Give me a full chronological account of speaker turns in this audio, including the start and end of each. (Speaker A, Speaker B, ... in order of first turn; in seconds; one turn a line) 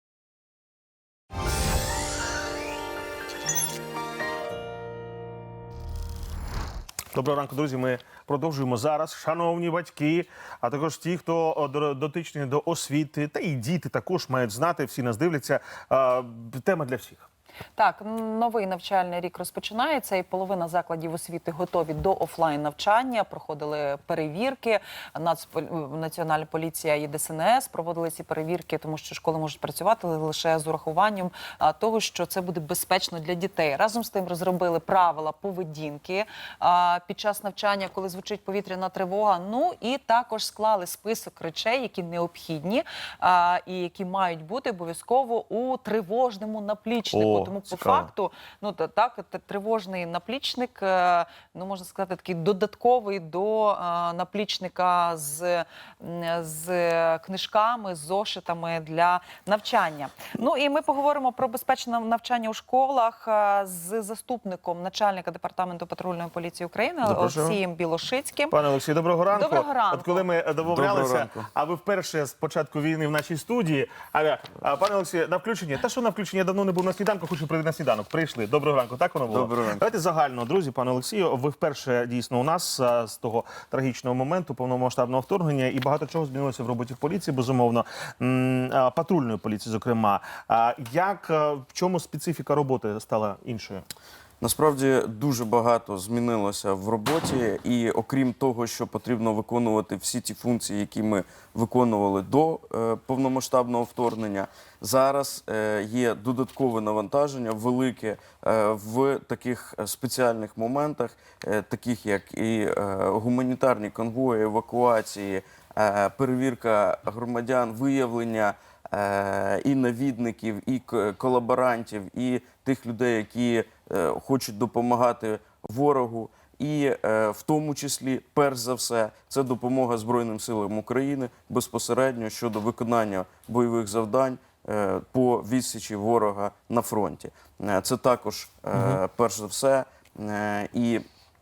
Speaker A: 7.1-17.3
Speaker B: 17.7-68.6
Speaker A: 47.1-48.1
Speaker A: 67.0-67.6
Speaker A: 68.5-93.8
Speaker B: 69.3-70.2
Speaker C: 70.6-71.5
Speaker C: 79.3-79.8
Speaker C: 94.4-141.0
Speaker A: 138.7-139.0